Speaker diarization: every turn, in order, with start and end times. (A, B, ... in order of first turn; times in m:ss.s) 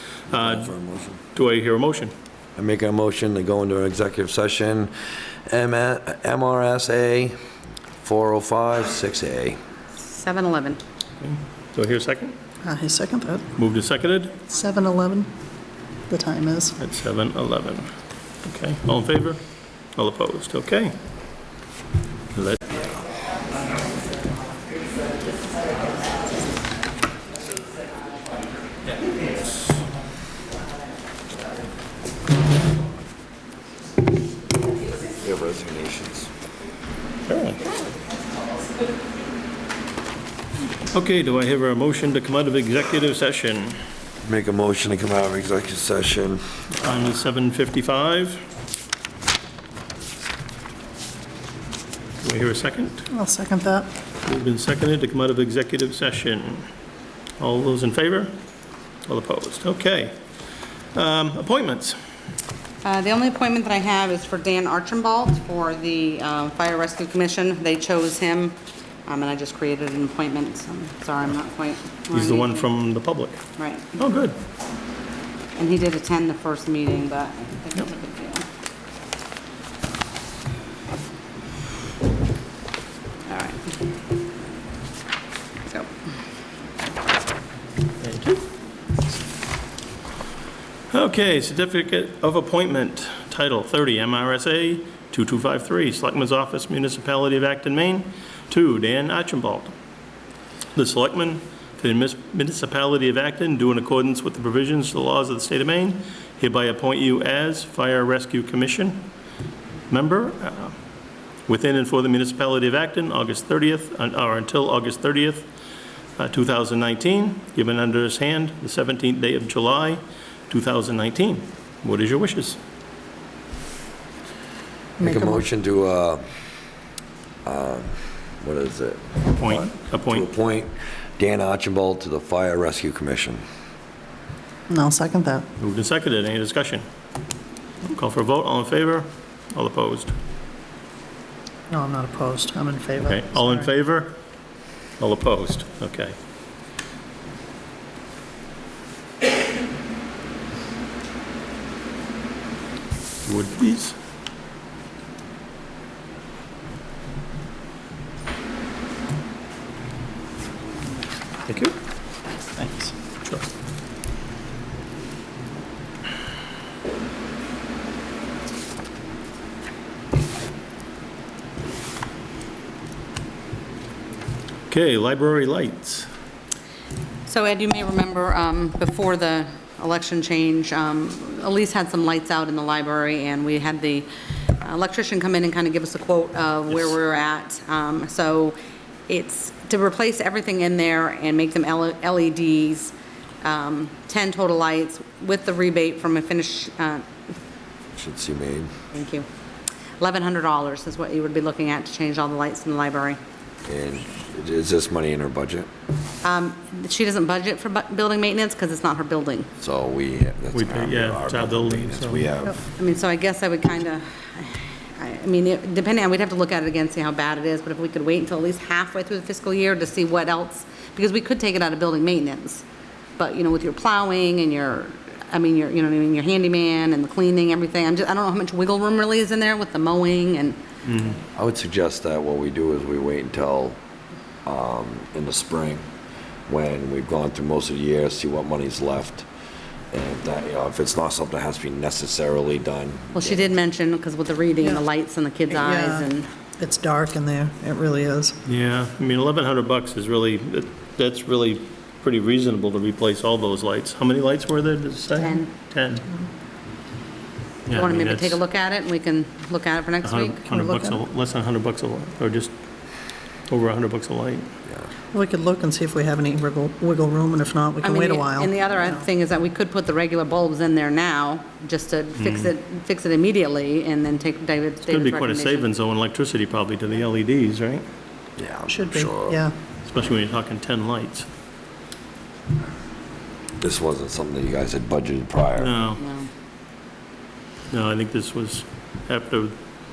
0:00.3-0:01.2 A
0:00.3-0:00.6 B
0:01.3-0:02.1 B
0:02.6-0:04.9 A
0:05.5-0:07.3 A
0:08.0-0:09.6 A
0:10.0-0:10.8 C
0:11.2-0:12.3 B
0:12.6-0:13.4 D
0:13.6-0:14.4 B
0:14.5-0:15.3 D
0:16.1-0:16.8 D
0:16.8-0:17.9 B
0:18.4-0:19.4 B
0:20.0-0:21.0 B
0:22.3-0:22.6 B
0:35.1-0:36.3 A
0:37.3-0:37.7 B
0:40.9-0:43.8 B
0:44.2-0:46.4 A
0:46.7-0:48.4 B
0:52.2-0:53.0 B
0:53.1-0:53.9 D
0:54.2-0:56.7 B
0:57.4-0:58.3 B
0:59.1-1:00.2 B
1:00.9-1:02.0 B
1:02.8-1:12.7 C
1:12.1-1:13.4 B
1:13.6-1:14.0 C
1:14.0-1:14.4 B
1:15.6-1:18.4 C
1:23.3-1:23.6 C
1:28.0-1:28.4 B
1:30.9-1:39.7 B
1:40.7-1:49.0 B
1:49.9-1:50.7 B
1:51.5-1:55.5 B
1:56.2-2:02.6 B
2:05.0-2:05.4 D
2:05.0-2:06.2 A
2:07.4-2:13.4 A
2:09.3-2:10.2 B
2:14.7-2:15.4 D
2:15.6-2:16.8 B
2:17.9-2:20.1 B
2:21.7-2:23.7 D
2:23.0-2:24.2 B
2:25.0-2:26.1 B
2:33.2-2:34.0 B
2:41.5-2:41.7 B
2:42.6-2:42.9 D
2:54.7-2:56.1 B
2:57.3-3:04.1 C
3:04.6-3:08.6 C
3:09.1-3:17.0 C
3:18.0-3:18.7 A
3:18.9-3:19.2 C
3:20.0-3:23.2 C
3:23.6-3:25.7 A
3:26.2-3:29.5 C
3:29.6-3:32.6 A
3:30.5-3:32.3 B
3:32.8-3:42.6 C
3:43.2-3:50.6 C
3:50.8-3:51.2 B
3:51.4-3:53.8 A
3:54.4-3:55.8 A
3:56.5-3:59.3 A
3:59.9-4:03.5 A
4:03.2-4:06.3 C
4:05.5-4:06.0 D
4:06.6-4:08.3 D
4:08.4-4:16.1 B
4:15.2-4:15.5 C
4:17.7-4:18.4 B
4:17.7-4:20.4 C
4:20.0-4:22.5 B
4:20.4-4:21.0 D
4:23.5-4:24.5 B
4:25.1-4:29.0 D
4:27.8-4:35.7 C
4:32.2-4:32.5 B
4:34.8-4:37.8 B
4:38.4-4:39.4 A
4:38.7-4:39.5 D
4:39.8-4:41.3 B
4:43.6-4:45.7 A
4:45.6-4:46.0 B
4:46.0-4:46.3 C
4:47.7-4:49.6 B